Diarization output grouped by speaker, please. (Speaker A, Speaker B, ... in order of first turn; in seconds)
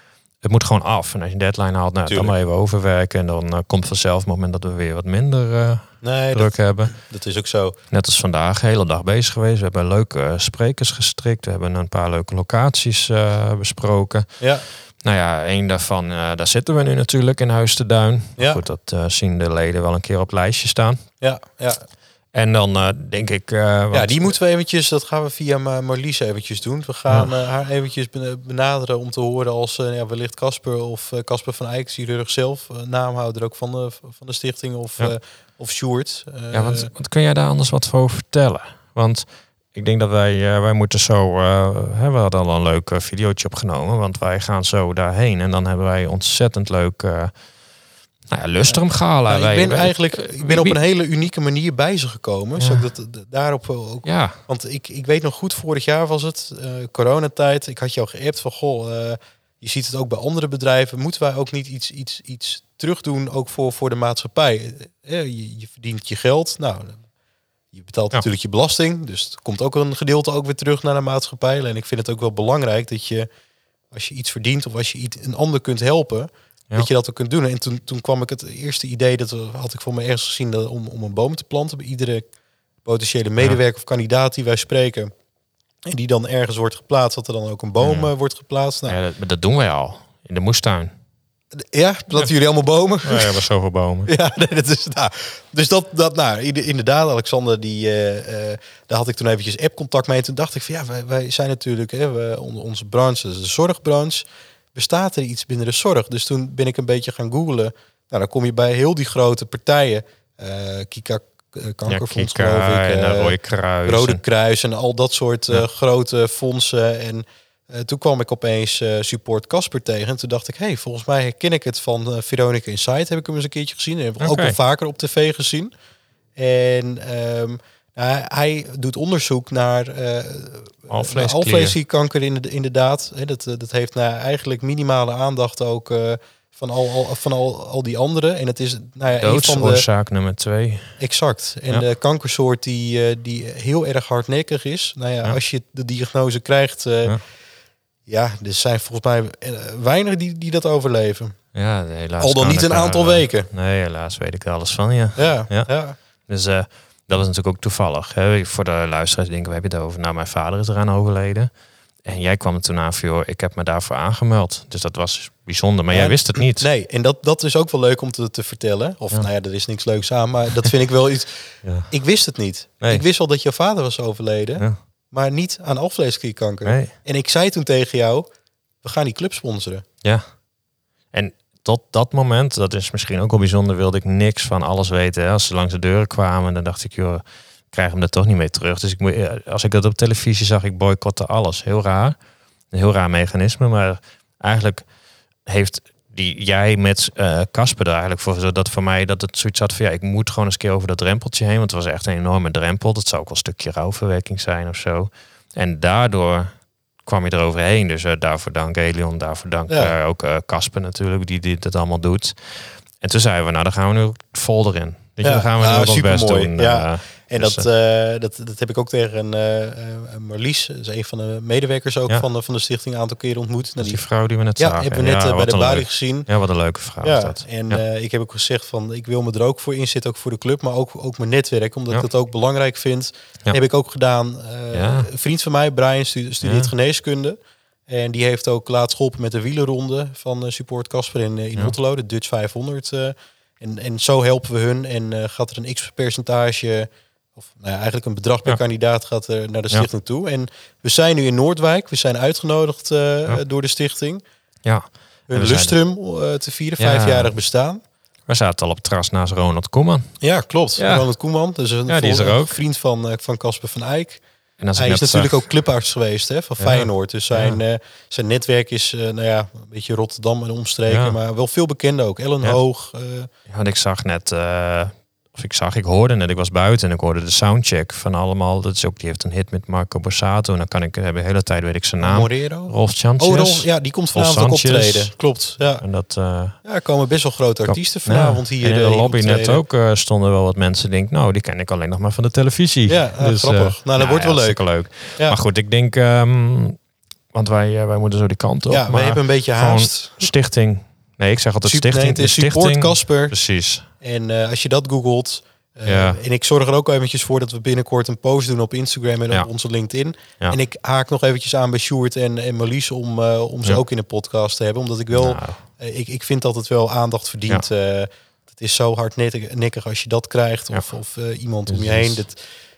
Speaker A: 0.4-6.9, 7.9-14.3, 15.0-21.0, 22.3-24.3, 36.5-47.3, 48.3-50.8, 52.6-52.9, 54.0-54.4, 87.8-88.1, 88.9-90.9, 93.0-94.1, 111.9-114.2, 124.2-124.6, 130.9-131.8, 139.2-140.9, 151.5-155.7, 156.3-161.5, 162.0-166.7, 171.6-171.9, 176.6-176.9, 181.1-192.2, 192.7-194.8, 195.4-206.5, 207.1-217.7, 223.8-227.8, 234.7-235.1, 236.4-236.7, 254.6-255.8, 256.8-257.3, 258.3-260.1, 260.8-261.1, 261.9-262.6, 264.6-265.4, 266.6-267.6, 270.9-271.2, 273.5-285.1, 285.8-286.6, 287.7-296.8, 297.3-303.9, 305.9-306.2, 315.1-315.6, 321.7-322.2
Speaker B: 2.1-2.3, 6.0-7.8, 14.4-14.6, 21.2-21.8, 23.9-36.9, 48.7-67.0, 67.7-73.3, 73.9-82.2, 82.8-85.1, 85.8-89.0, 91.5-93.4, 94.0-125.7, 126.3-139.8, 141.0-147.2, 148.1-151.3, 152.2-153.5, 155.2-155.9, 165.9-171.4, 171.9-178.3, 178.8-179.8, 209.7-209.9, 215.2-224.0, 224.6-226.3, 227.0-254.2, 255.3-257.8, 260.2-264.2, 264.8-273.3, 282.0-285.8, 286.6-289.6, 292.9-294.6, 298.7-300.3, 301.6-303.3, 304.0-322.4